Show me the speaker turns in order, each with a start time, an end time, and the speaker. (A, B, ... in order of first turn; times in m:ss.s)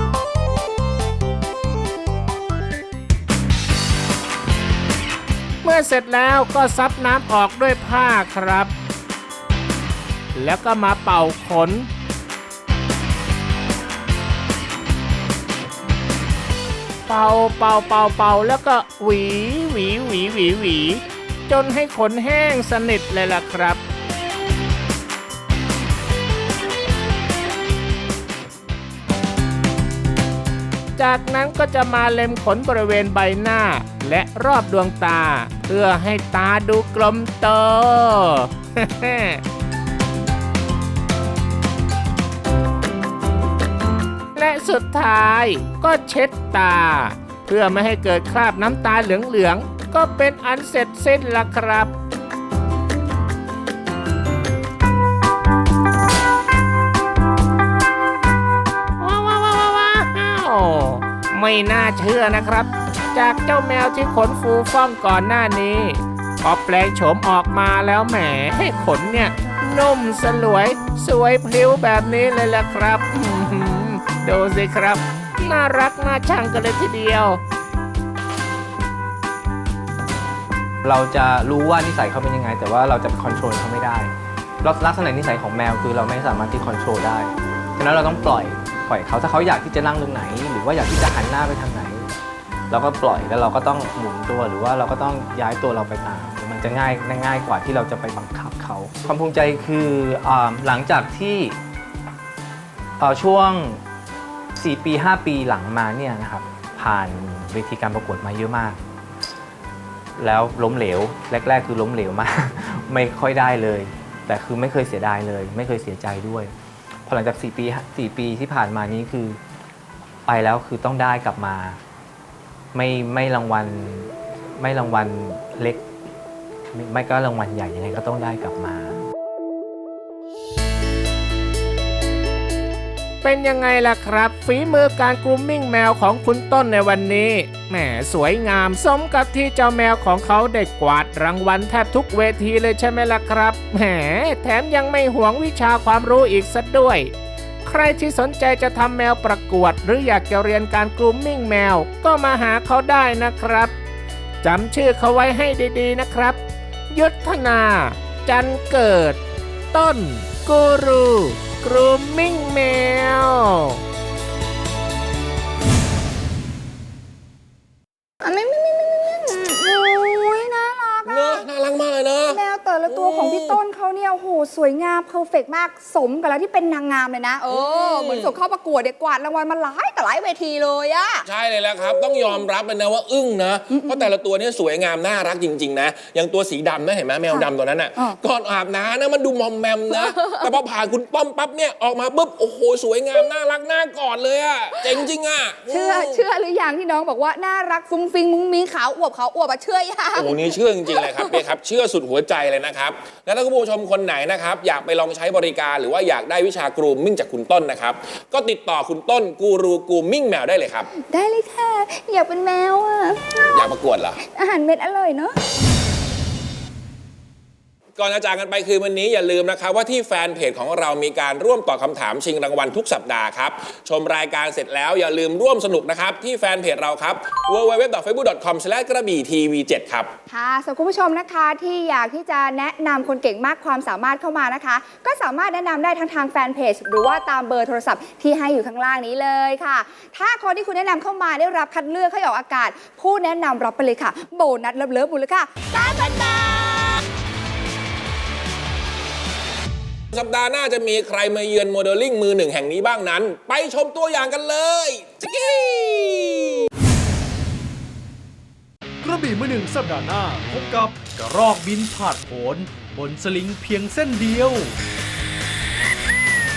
0:05.6-0:08.7 A
0:10.3-0:11.9 A
0:17.1-0:23.8 A
0:31.0-0:39.4 A
0:44.3-0:51.9 A
0:59.0-1:17.4 A
1:20.8-1:24.1 B
1:24.6-1:32.1 B
1:32.7-1:41.6 B
1:43.0-1:43.8 B
1:44.6-1:48.8 B
1:50.2-1:56.5 B
1:57.0-1:59.4 B
2:00.2-2:01.8 B
2:02.7-2:05.8 B
2:06.7-2:09.0 B
2:13.2-2:27.1 A
2:27.6-2:33.7 A
2:34.4-2:39.2 A
2:39.7-2:43.8 A
2:48.2-2:51.5 C
2:51.0-2:53.6 D
2:52.3-3:01.2 C
2:57.5-2:58.4 D
3:01.2-3:16.2 D
3:01.8-3:02.4 C
3:03.7-3:04.1 C
3:07.3-3:08.2 C
3:09.9-3:10.5 C
3:15.7-3:21.4 C
3:20.1-3:30.9 D
3:30.9-3:33.7 C
3:33.5-3:34.2 D
3:34.2-3:35.4 C
3:38.0-3:50.1 D
3:50.3-4:07.0 C
4:05.8-4:07.0 D
4:10.1-4:16.7 D
4:19.0-4:24.7 E